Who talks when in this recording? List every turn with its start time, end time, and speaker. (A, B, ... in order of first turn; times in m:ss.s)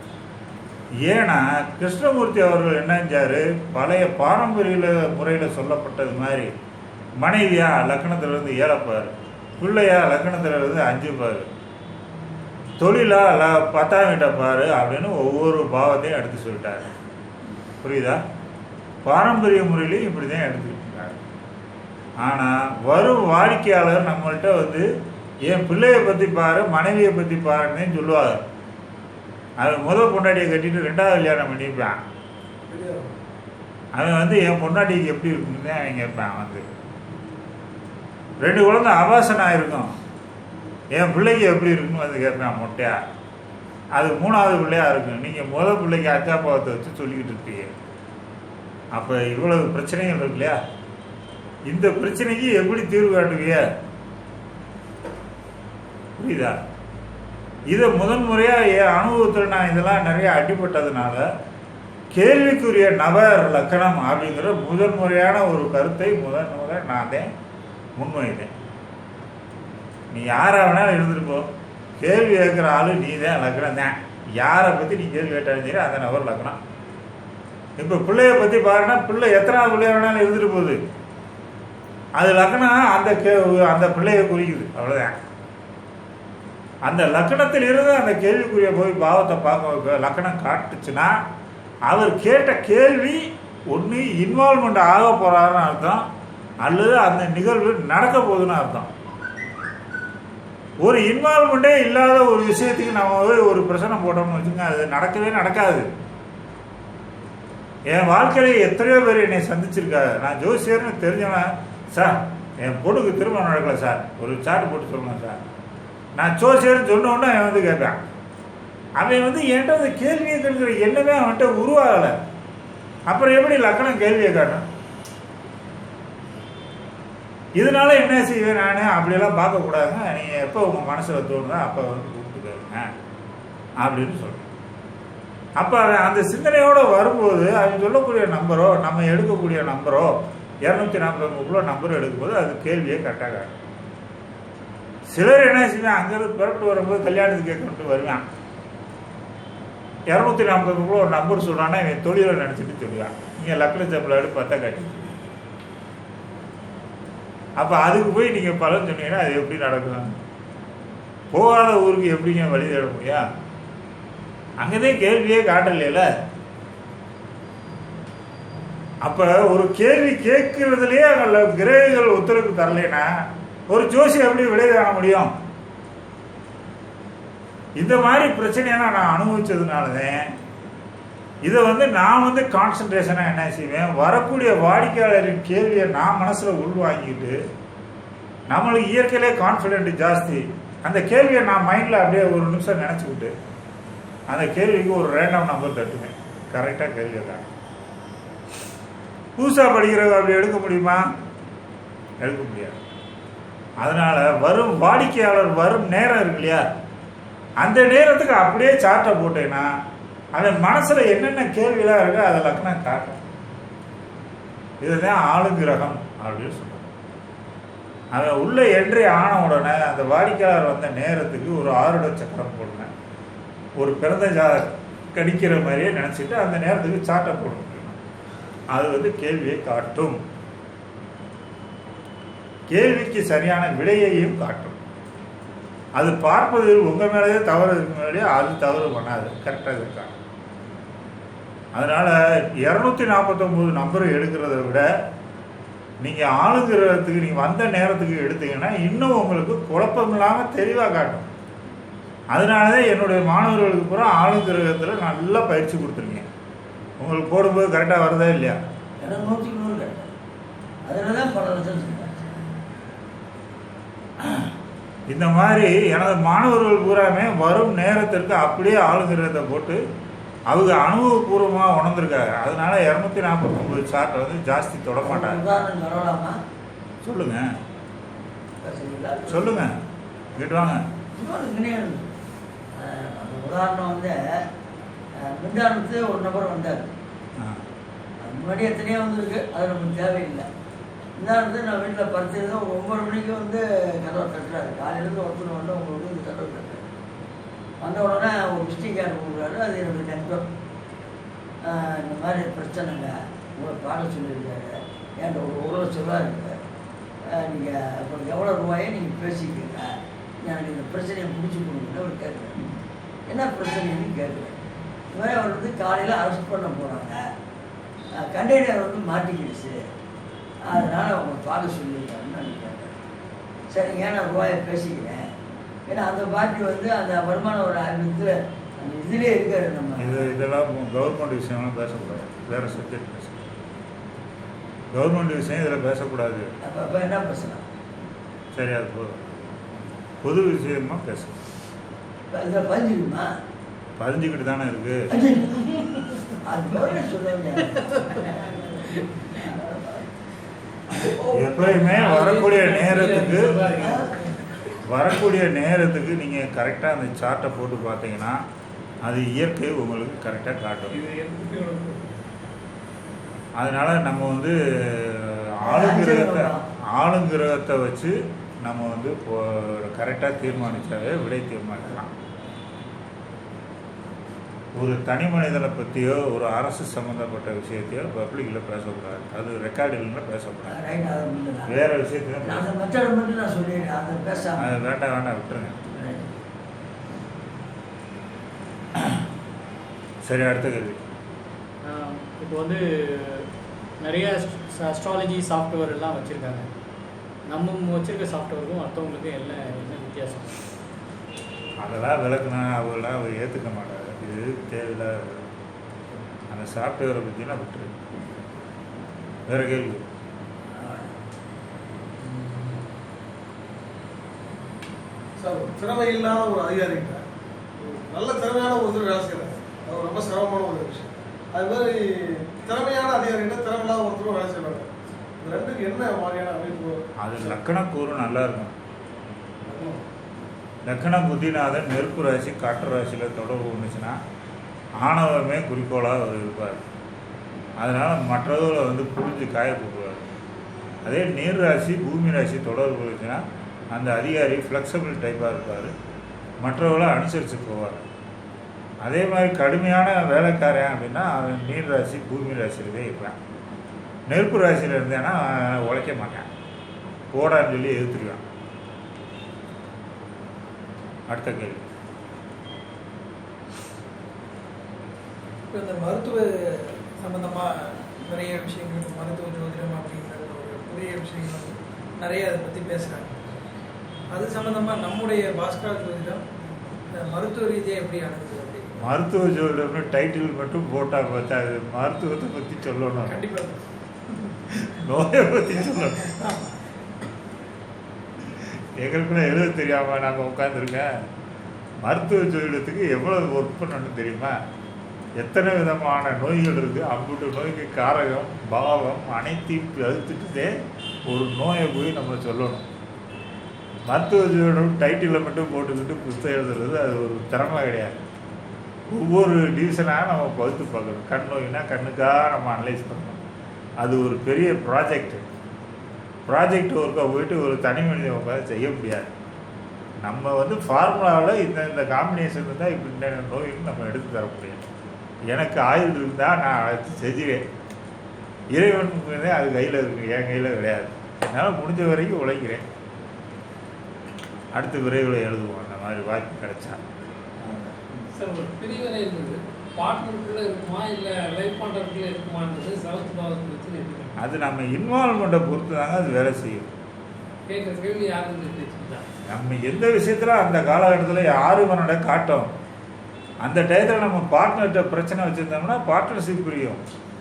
0:01.0-0:06.5 A
0:07.2-0:11.5 A
0:12.8-0:16.9 A
0:17.8-0:18.2 A
0:19.0-0:21.2 A
0:22.2-0:24.8 A
0:25.4-0:28.4 A
0:29.6-0:32.0 A
0:32.7-0:33.1 B
0:33.9-0:36.6 A
0:38.4-0:39.9 A
0:40.9-0:43.0 A
0:43.9-0:47.7 A
0:48.9-0:50.6 A
0:51.7-0:53.6 A
0:56.2-0:56.6 A
0:57.7-1:01.2 A
1:02.1-1:07.3 A
1:08.0-1:08.5 A
1:10.1-1:16.6 A
1:17.8-1:20.8 A
1:22.2-1:25.1 A
1:26.8-1:31.2 A
1:31.9-1:36.0 A
1:36.6-1:38.9 A
1:40.8-1:45.9 A
1:47.9-1:55.4 A
1:56.2-1:58.1 A
1:59.0-2:02.1 A
2:03.1-2:04.7 A
2:07.6-2:12.8 A
2:13.8-2:14.5 A
2:15.6-2:23.6 A
2:25.1-2:28.2 A
2:30.1-2:35.1 A
2:37.6-2:40.2 A
2:41.3-2:43.2 A
2:44.6-2:46.0 A
2:49.0-2:53.1 A
2:53.7-2:55.3 A
2:57.8-3:00.2 A
3:01.4-3:07.4 A
3:08.5-3:13.3 A
3:14.3-3:17.4 A
3:19.4-3:21.0 A
3:22.2-3:22.8 A
3:23.8-3:26.6 A
3:27.6-3:29.7 A
3:30.3-3:33.2 A
3:34.8-3:36.9 A
3:38.1-3:42.9 A
3:43.8-3:48.0 A
3:48.7-3:50.2 A
3:52.7-3:54.8 A
3:56.0-4:00.1 A
4:01.7-4:04.9 A
4:06.0-4:11.3 A
4:12.3-4:16.2 A
4:17.0-4:18.6 A
4:19.0-4:20.1 C
4:20.8-4:22.2 C
4:24.2-4:24.4 A
4:25.1-4:29.8 A
4:30.5-4:35.4 A
4:35.0-4:36.4 C
4:37.0-4:37.5 A
4:38.6-4:39.6 C
4:39.3-4:39.8 A
4:40.3-4:40.8 A
4:41.2-4:42.1 C
4:42.7-4:44.4 C
4:45.1-4:46.9 C
4:48.2-4:50.4 C
4:51.2-4:56.8 C
4:57.8-5:00.5 C
5:01.6-5:06.6 C
5:07.2-5:09.9 C
5:10.4-5:12.8 C
5:13.3-5:14.5 C
5:15.1-5:17.2 C
5:18.1-5:19.8 C
5:20.6-5:22.9 C
5:23.7-5:25.2 C
5:25.9-5:30.4 C
5:30.0-5:33.4 A
5:34.9-5:36.5 A
5:36.6-5:37.6 C
5:38.5-5:39.3 A
5:40.2-5:41.3 A
5:42.3-5:43.3 C
5:44.0-5:45.1 A
5:45.1-5:50.0 C
5:50.9-5:51.9 C
5:51.3-5:53.6 A
5:51.8-5:54.8 D
5:53.6-5:54.2 C
5:54.9-5:58.4 A
5:59.0-6:01.0 A
6:00.9-6:02.1 D
6:03.6-6:12.1 A
6:05.6-6:06.6 C
6:14.7-6:20.8 A
6:20.7-6:21.8 C
6:21.7-6:22.6 A
6:22.4-6:24.6 C
6:24.6-6:25.8 A
6:25.9-6:26.3 C
6:29.0-6:29.2 A
6:30.2-6:31.0 A
6:31.8-6:33.4 E
6:34.0-6:36.7 E
6:37.5-6:40.5 E
6:41.8-6:45.4 A
6:46.5-6:47.9 A
6:49.5-6:50.0 A
6:50.7-6:51.1 C
6:55.4-6:57.2 B
6:57.8-7:06.9 B
7:07.2-7:08.8 A
7:09.6-7:10.0 B
7:10.8-7:14.2 A
7:15.0-7:16.8 A
7:17.8-7:20.3 A
7:21.0-7:25.9 A
7:26.6-7:28.0 A
7:29.0-7:33.4 A
7:34.3-7:36.5 A
7:37.3-7:38.4 A
7:41.3-7:41.9 A
7:45.7-7:53.3 F
7:54.3-7:56.4 F
7:57.1-7:59.1 F
7:59.0-8:03.4 A
8:03.2-8:03.8 F
8:04.8-8:06.5 A
8:06.3-8:06.5 F
8:08.4-8:11.1 A
8:12.0-8:14.5 A
8:15.4-8:20.8 A
8:21.3-8:22.8 A
8:24.1-8:28.2 A
8:29.1-8:33.4 A
8:34.0-8:35.4 A
8:36.5-8:39.3 A
8:40.2-8:44.8 A
8:45.5-8:47.6 A
8:48.7-8:52.8 A
8:54.7-8:57.0 A
8:57.7-9:04.4 D
9:04.4-9:06.9 A
9:07.7-9:09.2 D
9:09.5-9:12.7 A
9:13.6-9:17.0 A